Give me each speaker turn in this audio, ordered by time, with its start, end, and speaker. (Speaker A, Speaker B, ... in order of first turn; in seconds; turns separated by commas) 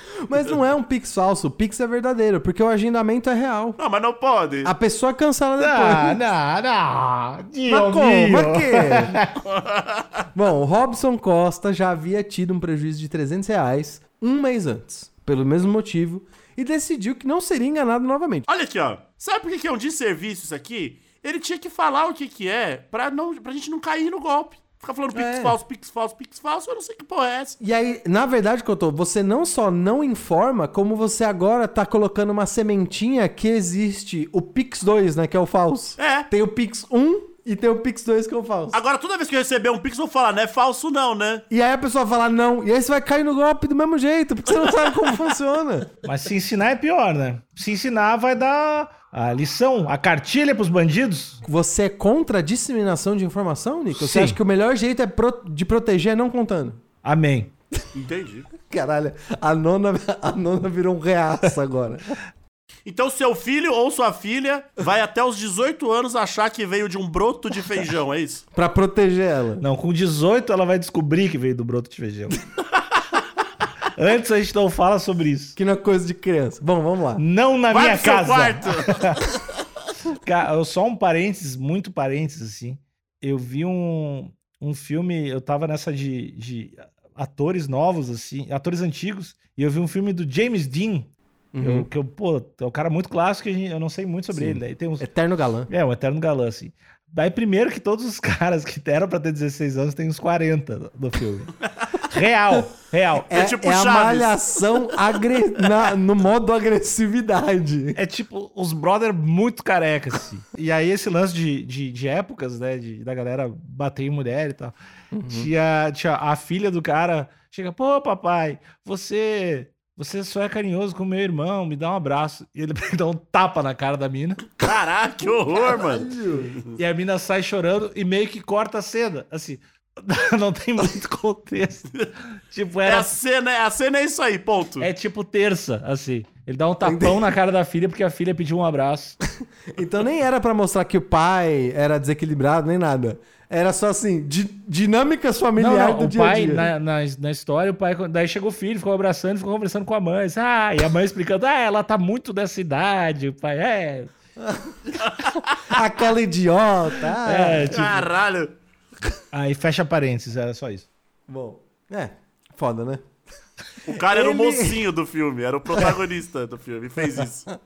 Speaker A: 0.2-3.8, Speaker B: 3.8-4.7, Speaker A: 4.6-6.2, Speaker C: 5.6-9.4, Speaker A: 7.7-9.2, Speaker B: 9.4-10.1, Speaker A: 10.3-18.5, Speaker B: 18.5-27.6, Speaker A: 25.1-25.6, Speaker A: 27.6-38.8, Speaker B: 36.0-36.3, Speaker B: 38.7-41.4, Speaker A: 41.5-45.9, Speaker C: 46.0-51.4, Speaker A: 51.4-56.8, Speaker C: 53.9-54.4, Speaker C: 57.0-57.5, Speaker B: 57.9-58.5, Speaker A: 58.6-62.1, Speaker B: 62.9-68.4, Speaker A: 68.5-69.6, Speaker C: 69.6-72.4, Speaker C: 74.0-75.6, Speaker A: 75.6-77.2, Speaker C: 77.2-79.2, Speaker B: 77.7-79.2, Speaker C: 80.1-91.1, Speaker A: 91.5-91.9, Speaker C: 91.6-95.1, Speaker A: 94.3-95.7, Speaker C: 95.7-103.3, Speaker A: 103.3-108.0, Speaker B: 103.3-104.7, Speaker C: 107.9-114.7, Speaker A: 115.1-115.5, Speaker C: 115.3-124.5, Speaker B: 124.6-126.8, Speaker A: 125.7-126.6, Speaker C: 126.8-133.1, Speaker B: 132.9-134.9, Speaker C: 134.8-139.2, Speaker A: 136.8-137.3, Speaker A: 139.7-146.7, Speaker C: 145.6-154.1, Speaker A: 154.4-154.9, Speaker B: 155.0-155.6, Speaker A: 155.6-158.0, Speaker C: 157.2-158.0, Speaker B: 157.7-158.6, Speaker C: 159.3-160.9, Speaker A: 161.3-163.1, Speaker B: 163.9-167.5, Speaker A: 163.9-164.8